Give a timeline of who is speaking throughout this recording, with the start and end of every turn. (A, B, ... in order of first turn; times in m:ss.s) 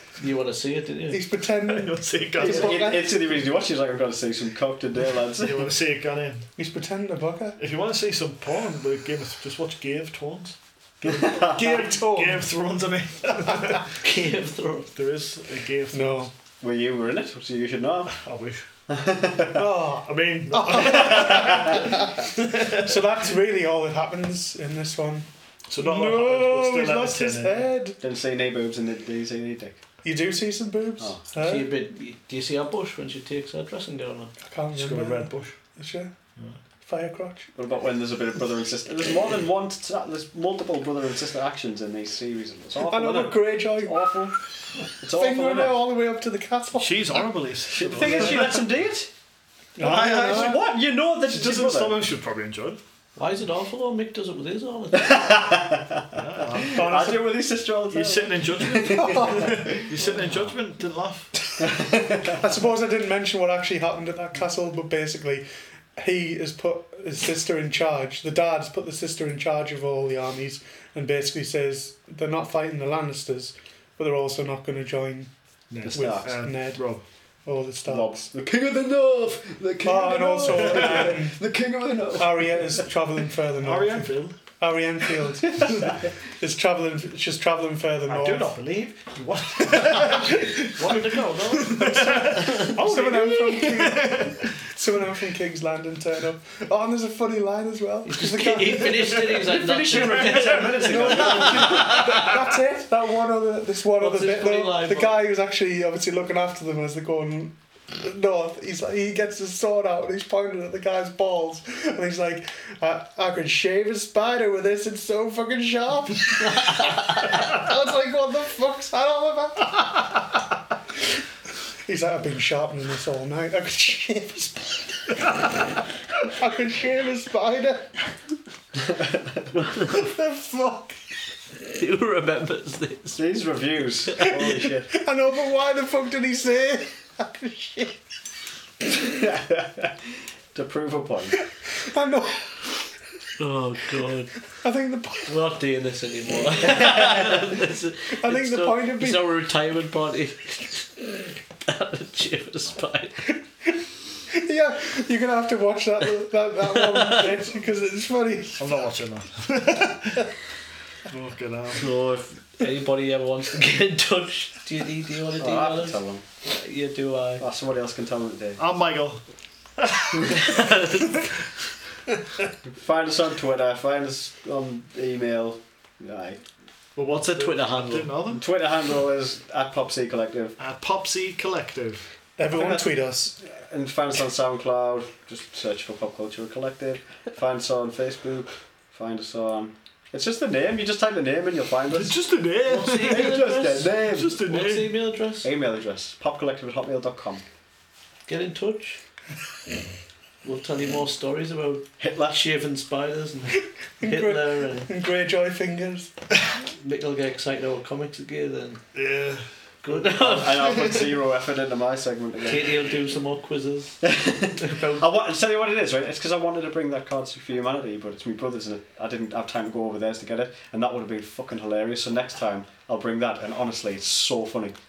0:00.2-0:01.2 A
0:01.1-0:03.1 B
0:01.6-0:03.0 C
0:02.4-0:05.6 D
0:05.3-0:06.5 C
0:06.6-0:07.6 B
0:07.6-0:13.9 C
0:11.0-0:11.8 D
0:11.5-0:12.4 B
0:14.0-0:14.9 A
0:14.9-0:16.3 C
0:15.9-0:16.3 B
0:16.6-0:18.1 D
0:18.1-0:18.6 C
0:18.9-0:19.6 D
0:19.5-0:28.0 B
0:20.0-0:21.9 C
0:20.9-0:21.7 D
0:22.5-0:22.9 C
0:25.7-0:27.6 C
0:28.0-0:29.8 D
0:30.0-0:31.7 B
0:31.4-0:34.3 A
0:34.4-0:36.1 B
0:34.7-0:35.5 C
0:36.8-0:37.5 B
0:37.6-0:44.4 D
0:42.8-0:44.2 B
0:45.0-0:45.8 D
0:45.0-0:47.3 B
0:46.7-0:48.6 C
0:47.7-0:49.1 D
0:48.0-0:48.4 B
0:49.8-0:50.6 B
0:49.8-0:50.7 C
0:49.9-0:52.0 D
0:51.2-0:52.8 C
0:53.2-0:55.4 A
0:54.9-0:59.6 D
0:56.1-0:56.9 C
0:56.7-0:57.3 B
0:57.9-1:01.4 C
0:58.9-0:59.6 B
1:01.6-1:02.4 D
1:02.4-1:15.3 B
1:15.7-1:17.0 C
1:15.8-1:16.3 D
1:15.8-1:16.8 B
1:17.4-1:18.1 B
1:17.9-1:22.8 D
1:19.8-1:21.4 B
1:20.5-1:21.1 C
1:22.1-1:28.6 B
1:23.6-1:24.4 C
1:25.6-1:26.0 D
1:28.1-1:34.5 C
1:29.7-1:32.8 A
1:31.8-1:39.3 B
1:38.0-1:41.5 A
1:39.3-1:42.3 D
1:40.3-1:40.6 C
1:40.6-2:00.2 B
1:44.0-1:45.2 A
2:01.8-2:05.1 B
2:06.3-2:08.0 B
2:09.9-2:11.0 B
2:11.7-2:13.2 A
2:13.1-2:14.9 D
2:14.9-2:17.9 B
2:19.0-2:21.4 D
2:21.8-2:22.7 B
2:23.4-2:24.3 A
2:24.5-2:25.3 B
2:25.3-2:31.0 A
2:28.1-2:29.2 B
2:31.6-2:33.3 A
2:34.3-2:38.7 B
2:36.7-2:37.3 A
2:38.6-2:40.2 C
2:41.1-2:41.9 C
2:41.8-2:42.3 D
2:42.6-2:47.4 A
2:45.4-2:46.2 D
2:47.4-2:48.6 D
2:48.6-2:49.2 C
2:49.8-2:50.8 C
2:50.3-2:51.2 A
2:52.7-2:56.4 D
2:57.0-2:58.4 C
2:57.1-2:58.1 A
2:58.3-3:00.6 D
3:00.6-3:02.1 C
3:02.4-3:03.4 B
3:02.5-3:12.1 D
3:11.9-3:15.0 C
3:12.6-3:15.5 A
3:12.9-3:14.4 D
3:15.4-3:17.4 D
3:18.3-3:19.0 A
3:20.4-3:24.9 A
3:22.0-3:22.4 D
3:24.0-3:26.1 B
3:26.7-3:28.8 A
3:28.9-3:29.5 C
3:29.8-3:31.1 A
3:29.9-3:32.9 D
3:32.4-3:35.0 A
3:34.0-3:44.7 D